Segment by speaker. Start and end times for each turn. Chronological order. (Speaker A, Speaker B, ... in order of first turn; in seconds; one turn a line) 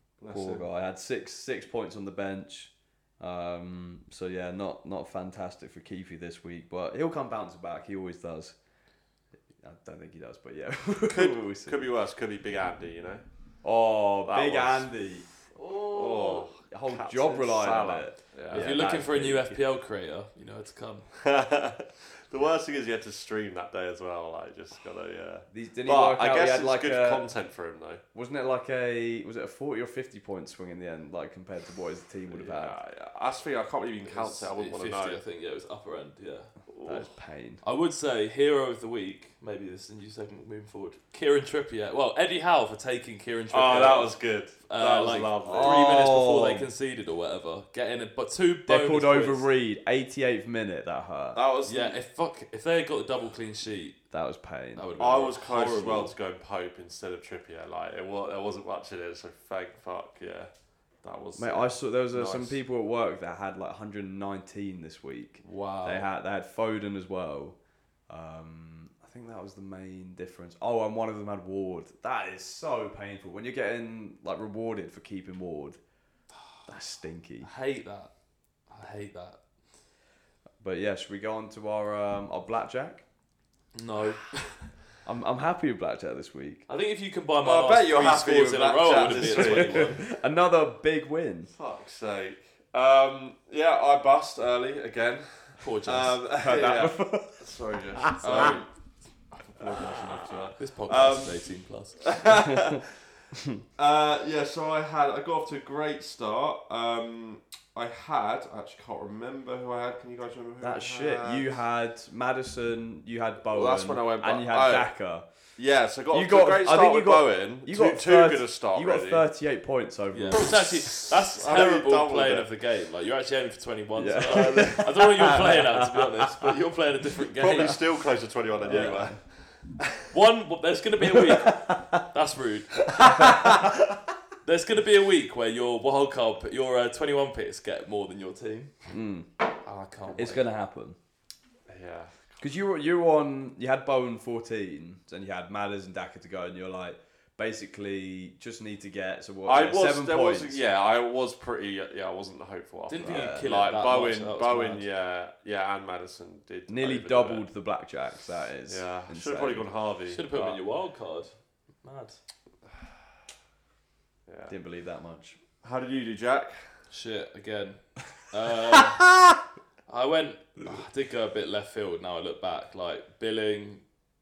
Speaker A: 0.2-0.7
Speaker B: 0.3-8.6
Speaker B: 9.6-11.9
Speaker A: 11.1-13.2
Speaker B: 13.6-15.3
Speaker A: 14.3-14.9
Speaker C: 15.6-16.5
Speaker A: 15.9-18.7
Speaker B: 16.7-19.6
Speaker C: 18.5-21.1
Speaker A: 21.1-28.0
Speaker B: 25.5-27.2
Speaker B: 28.1-32.8
Speaker A: 32.3-35.2
Speaker C: 34.0-37.0
Speaker A: 36.7-37.0
Speaker B: 36.8-37.6
Speaker C: 37.6-44.1
Speaker A: 43.5-45.9
Speaker C: 44.7-49.5
Speaker B: 45.4-46.7
Speaker B: 48.7-51.4
Speaker A: 51.4-52.0
Speaker C: 51.6-54.0
Speaker B: 54.1-54.9
Speaker C: 54.8-56.1
Speaker A: 55.0-60.5
Speaker A: 61.0-62.6
Speaker B: 61.4-67.6
Speaker C: 65.4-66.1
Speaker B: 68.1-75.8
Speaker B: 76.7-77.5
Speaker C: 77.4-78.1
Speaker C: 78.7-79.4
Speaker B: 80.6-83.0
Speaker C: 83.8-84.7
Speaker B: 85.0-86.7
Speaker C: 86.7-90.0
Speaker A: 87.4-90.0
Speaker B: 89.0-91.5
Speaker A: 91.5-98.7
Speaker C: 95.6-96.2
Speaker B: 96.4-98.6
Speaker C: 98.2-98.6
Speaker A: 99.4-103.0
Speaker B: 99.7-100.0
Speaker C: 100.6-102.1
Speaker B: 103.3-103.6
Speaker A: 103.8-111.5
Speaker B: 110.6-115.3
Speaker A: 113.5-114.9
Speaker A: 115.6-119.2
Speaker B: 116.1-120.6
Speaker C: 120.1-127.8
Speaker A: 120.4-122.5
Speaker B: 124.0-126.5
Speaker A: 124.3-124.8
Speaker A: 127.4-129.8
Speaker B: 128.6-129.2
Speaker C: 128.7-129.0
Speaker C: 130.1-132.8
Speaker B: 131.0-132.0
Speaker A: 133.0-133.7
Speaker B: 133.0-133.7
Speaker C: 134.4-138.7
Speaker B: 138.9-139.3
Speaker C: 139.6-140.4
Speaker B: 140.2-141.0
Speaker A: 141.7-142.4
Speaker B: 142.4-150.6
Speaker A: 149.5-157.5
Speaker C: 152.9-154.8
Speaker B: 153.1-153.5
Speaker B: 156.7-159.7
Speaker A: 158.7-160.6
Speaker C: 160.1-162.2
Speaker A: 164.3-164.5
Speaker B: 164.5-165.4
Speaker A: 165.6-166.7
Speaker C: 166.9-169.1
Speaker C: 169.9-173.8